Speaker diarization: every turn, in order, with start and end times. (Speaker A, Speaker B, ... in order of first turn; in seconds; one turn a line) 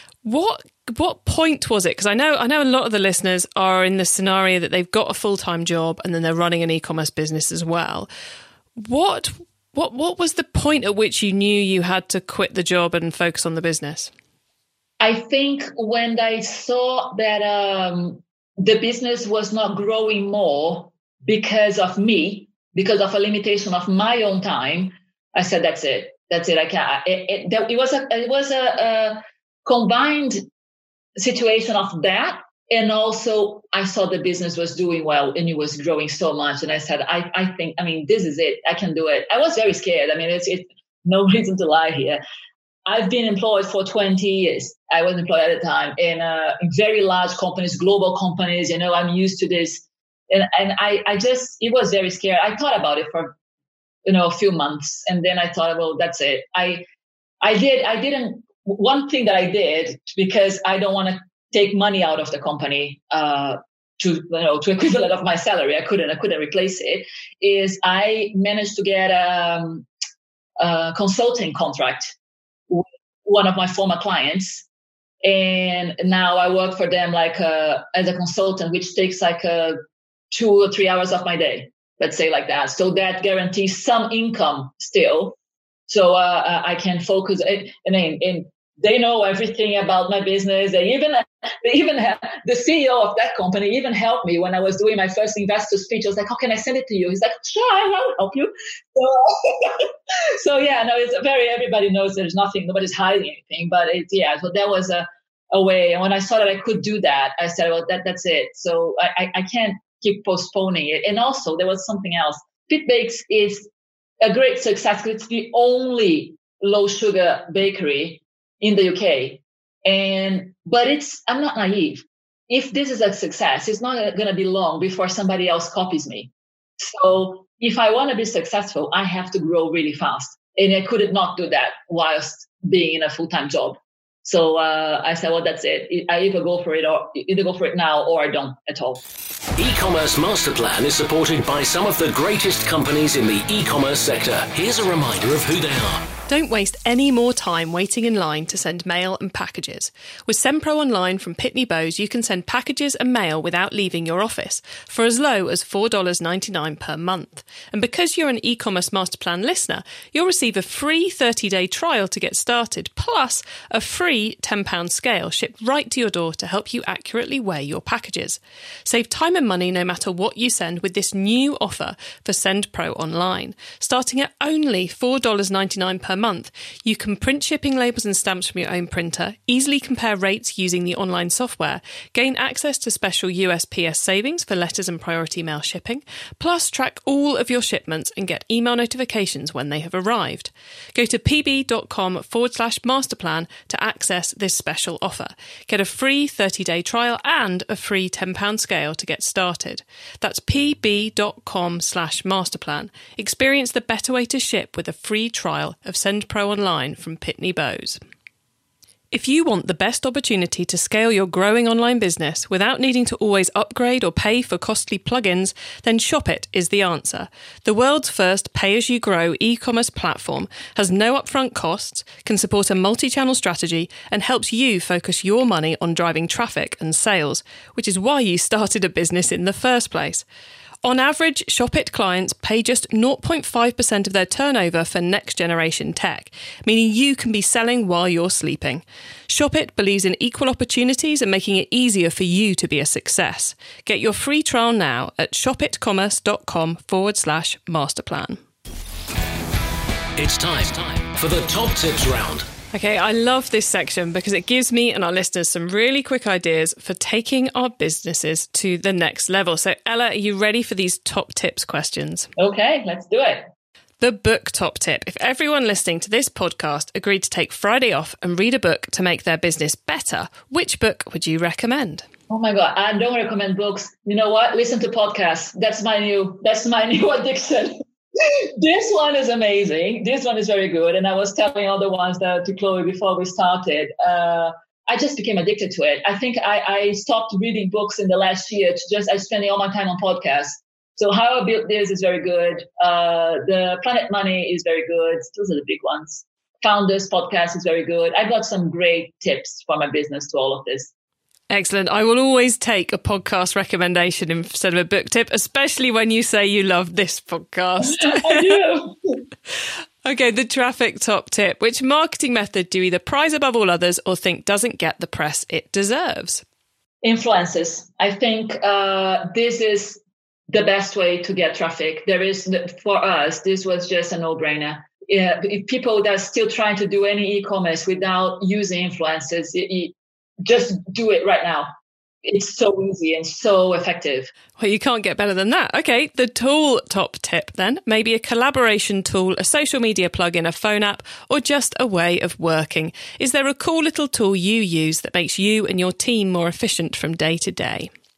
Speaker A: 0.2-8.1
Speaker A: 8.8-14.1
Speaker B: 15.0-30.4
Speaker B: 31.2-42.2
Speaker B: 42.9-53.4
Speaker B: 54.1-56.9
Speaker B: 57.4-69.9
Speaker B: 70.6-72.1
Speaker B: 72.7-74.7
Speaker B: 75.2-79.8
Speaker B: 80.3-85.4
Speaker B: 85.9-113.7
Speaker B: 114.2-139.0
Speaker C: 139.6-146.1
Speaker A: 146.3-208.0
Speaker A: 209.1-230.2
Speaker A: 230.8-248.4
Speaker C: 250.2-252.5
Speaker A: 252.7-262.3
Speaker B: 262.4-263.4
Speaker A: 264.0-272.1
Speaker B: 272.3-300.9
Speaker A: 301.5-308.6
Speaker B: 307.8-309.2
Speaker A: 310.0-316.4
Speaker B: 317.0-331.7
Speaker B: 332.2-334.3
Speaker A: 334.6-347.9